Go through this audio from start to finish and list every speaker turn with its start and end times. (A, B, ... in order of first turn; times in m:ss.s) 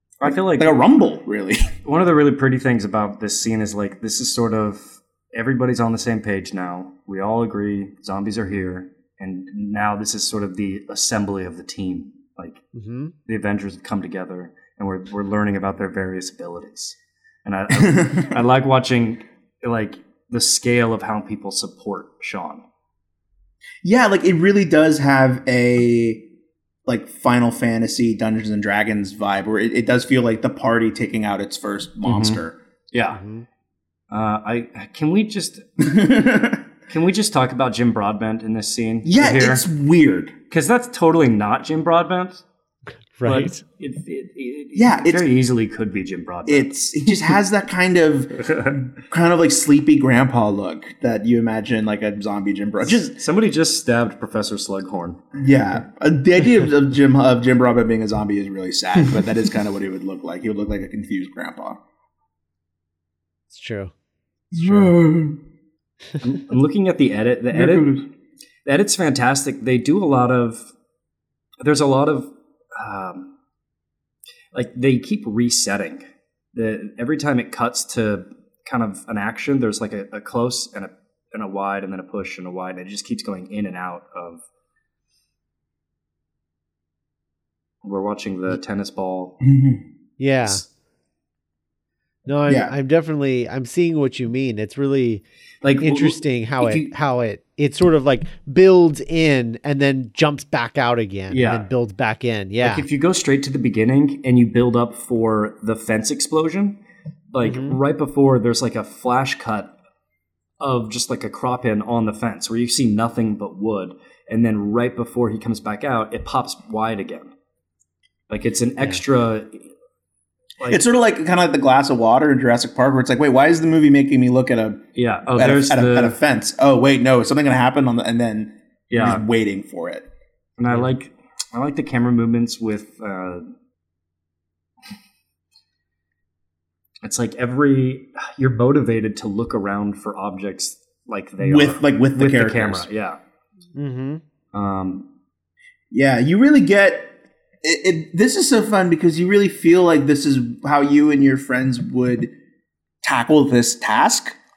0:00.2-0:00.8 A
0:00.2-0:01.7 B
0:01.8-0:12.6 A
0:12.7-0:13.1 C
0:13.2-0:22.6 A
0:17.8-0:18.2 B
0:23.8-0:26.3 B
0:26.8-0:32.6 B
0:32.0-0:32.4 A
0:32.9-0:33.2 A
0:33.1-0:33.4 C
0:34.1-0:36.1 A
0:35.8-0:36.6 B
0:36.9-0:39.6 A
0:39.0-0:40.3 B
0:40.5-0:42.4 A
0:43.2-0:43.6 C
0:43.2-0:46.7 A
0:44.7-0:45.2 B
0:46.5-0:53.2 B
0:48.4-0:48.7 A
0:52.8-0:55.2 A
0:55.3-1:01.8 B
1:03.5-1:03.9 C
1:04.5-1:05.4 B
1:06.2-1:07.9 A
1:07.5-1:08.0 B
1:08.6-1:10.7 A
1:11.6-1:13.3 A
1:14.5-1:24.4 A
1:27.8-1:29.4 A
1:29.4-1:29.8 B
1:30.2-1:30.6 C
1:32.2-1:35.2 C
1:32.5-1:32.7 B
1:35.6-1:36.9 A
1:35.8-1:42.8 C
1:41.3-1:41.6 A
1:42.6-1:46.8 A
1:47.3-1:49.7 A
1:47.4-1:47.8 C
1:50.6-1:57.3 A
1:58.3-1:59.7 A
2:00.7-2:04.8 B
2:04.9-2:06.2 A
2:05.3-2:10.1 B
2:08.9-2:09.2 A
2:10.6-2:13.4 A
2:17.0-2:23.2 A
2:21.4-2:22.9 B
2:23.8-2:24.2 C
2:24.5-2:25.1 A
2:25.9-2:32.3 B
2:33.0-2:34.4 B